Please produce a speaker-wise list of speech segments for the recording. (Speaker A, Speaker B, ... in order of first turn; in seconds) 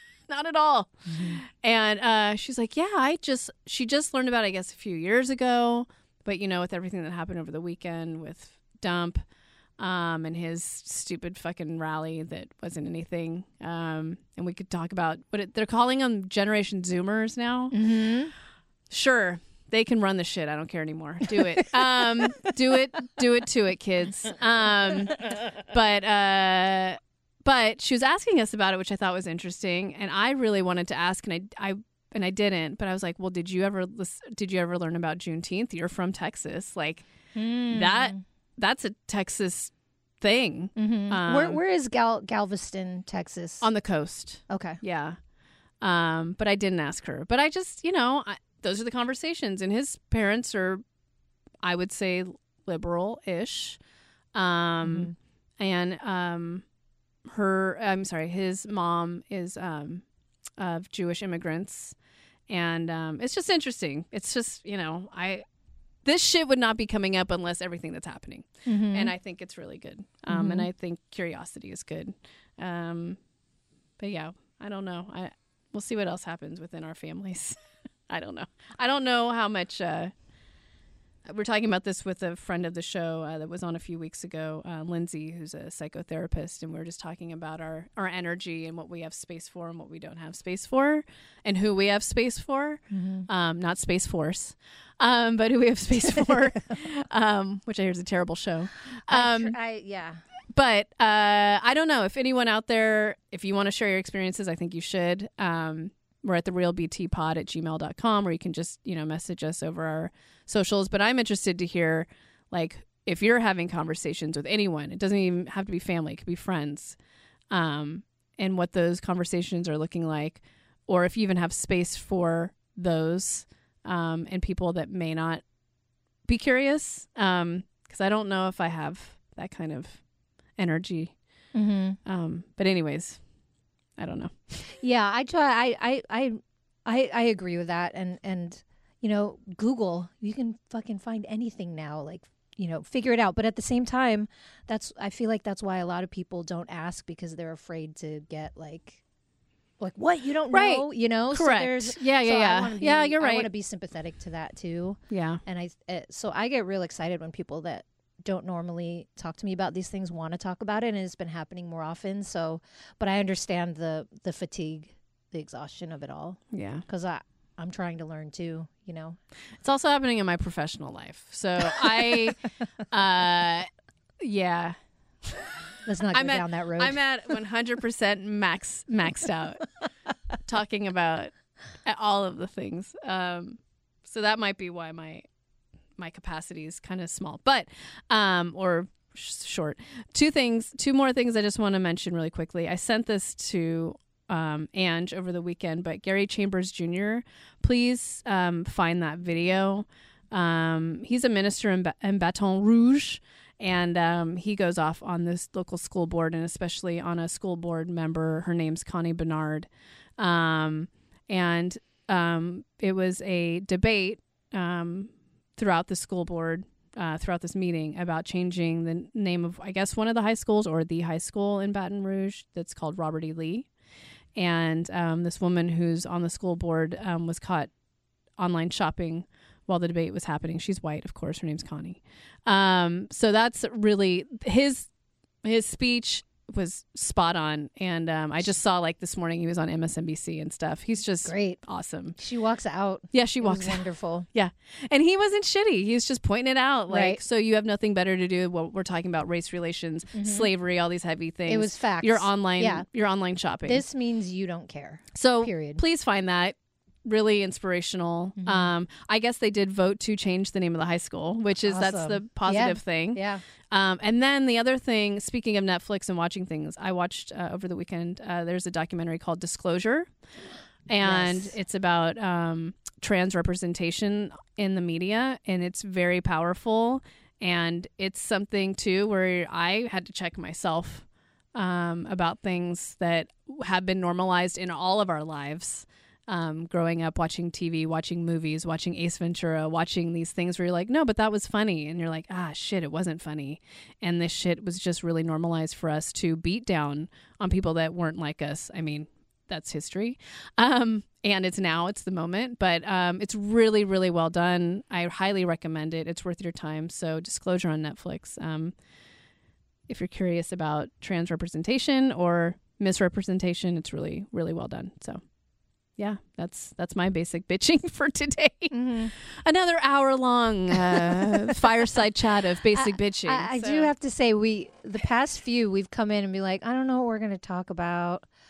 Speaker A: 0.3-9.2, 9.8-17.9, 18.9-37.1, 37.7-41.6, 43.6-45.2, 45.8-50.8, 51.6-53.8, 54.3-56.7, 57.2-60.0, 60.6-62.0, 62.5-65.5, 66.0-73.2, 74.0-80.1, 81.3-99.6, 100.5-117.0, 117.5-125.4, 126.2-130.0, 130.6-131.2, 132.1-133.2, 134.0-134.7, 150.5-153.5, 155.1-155.4, 166.5-166.8, 169.6-173.7, 174.2-175.5, 176.1-179.7, 180.4-181.3, 181.8-185.2, 186.0-223.7, 224.3-227.7, 228.4-234.9, 235.4-242.2, 243.1-253.8, 255.1-270.1, 270.9-308.7, 309.9-315.2, 316.0-323.9
Speaker B: 1.1-1.4, 17.7-18.3, 21.4-22.3, 37.3-38.2, 40.8-43.6, 44.5-44.8, 54.8-55.1, 68.7-69.1, 70.3-70.7, 92.9-93.3, 99.1-100.2, 131.5-132.0, 134.8-149.0, 149.8-169.2, 175.8-177.0, 241.2-241.6, 242.2-244.3, 246.9-247.2, 250.1-250.5, 251.5-252.9, 253.7-255.8, 258.4-258.7, 261.7-263.4, 271.0-271.6, 318.7-319.1, 320.9-321.6, 322.7-328.3